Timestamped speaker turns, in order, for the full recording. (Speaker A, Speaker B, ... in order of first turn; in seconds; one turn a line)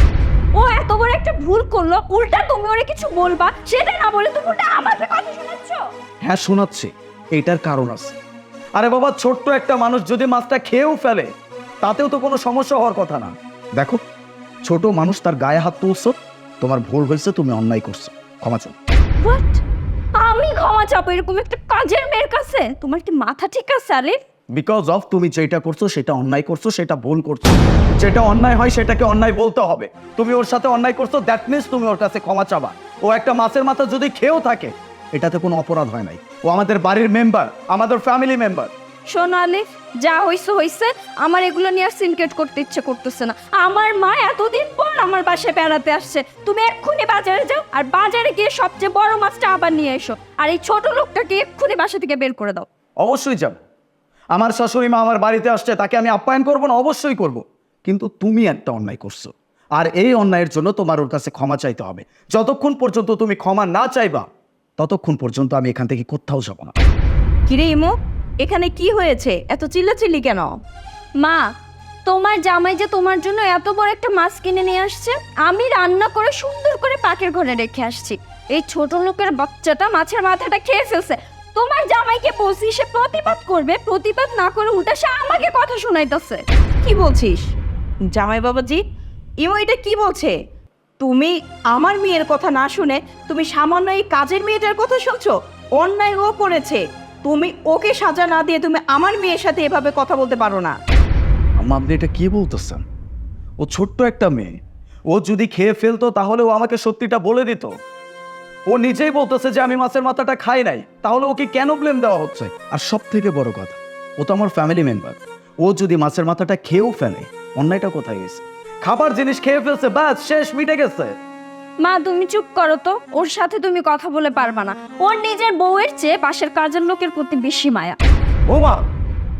Speaker A: 0.5-5.8
Speaker B: 6.2-8.2
Speaker B: 8.8-11.3
Speaker B: 11.8-14.0
Speaker B: 14.6-18.7
Speaker A: 19.2-19.6
Speaker A: 20.2-24.2
Speaker B: 24.5-38.7
Speaker A: 39.1-52.7
Speaker B: 53.0-53.6
Speaker B: 54.3-64.3
Speaker B: 64.8-66.7
Speaker C: 67.5-70.5
Speaker A: 72.0-86.4
Speaker C: 86.8-87.5
Speaker C: 88.1-88.8
Speaker C: 89.4-90.3
Speaker C: 91.0-100.8
Speaker B: 101.6-102.8
Speaker B: 103.6-104.5
Speaker B: 105.1-107.7
Speaker B: 108.7-121.2
Speaker A: 121.8-128.0
Speaker B: 128.5-128.8